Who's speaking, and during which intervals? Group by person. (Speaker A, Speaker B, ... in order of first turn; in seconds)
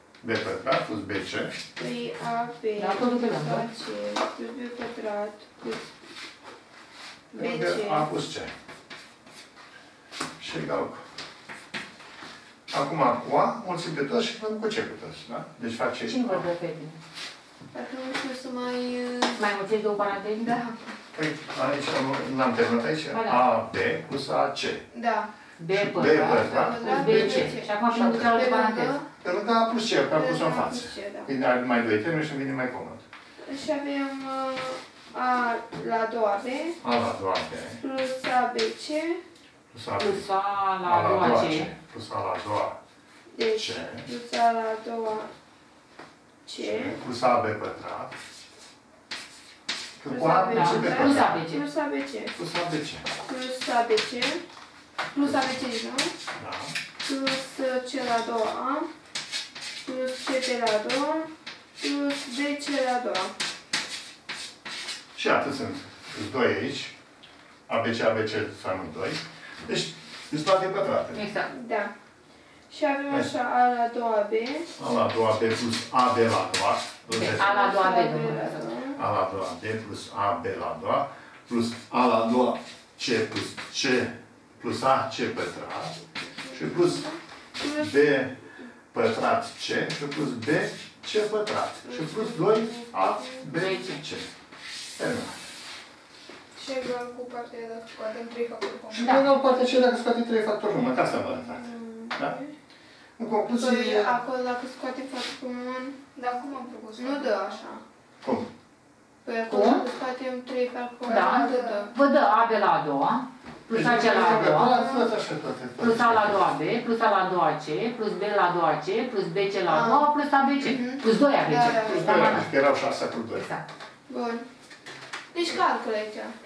Speaker A: 0.2-1.6, 7.3-8.5, 10.4-11.0, 12.7-16.4, 21.1-24.8, 25.7-28.4, 29.2-33.0, 36.8-37.8, 39.7-40.2, 40.8-42.8, 43.5-44.1, 46.6-48.1, 50.0-51.4, 52.4-53.0, 56.4-56.7, 65.1-66.9, 67.7-71.2, 74.8-77.5, 79.0-86.0, 86.5-87.0, 87.7-88.4, 88.9-94.3, 95.0-95.4, 98.9-102.3, 103.2-104.2, 108.2-108.5, 109.5-109.8, 113.7-116.4, 121.6-123.5
Speaker B: 1.8-5.9, 7.3-8.1, 17.7-19.5, 20.4-20.9, 24.9-25.3, 26.3-29.0, 30.1-31.3, 33.4-36.8, 37.8-39.2, 43.3-45.3, 46.4-47.0, 50.1-52.3, 53.2-54.4, 55.1-56.1, 57.0-58.9, 59.8-63.3, 71.5-71.9, 72.7-74.7, 77.3-79.0, 86.5-87.9, 91.9-93.5, 101.5-102.5, 103.6-106.0, 107.0-107.8, 109.2-111.9, 114.0-115.0, 119.7-120.1, 120.6-122.0, 124.1-124.4, 125.3-126.3
Speaker C: 2.8-3.6, 16.1-17.0, 19.4-20.5, 23.1-23.4, 25.6-29.0, 40.0-41.7, 50.4-51.6, 71.1-71.5, 77.1-78.6, 93.5-94.0, 99.0-99.2, 111.1-114.8, 115.8-122.5, 123.3-123.6
Speaker D: 96.5-99.1, 106.1-107.6, 111.1-111.8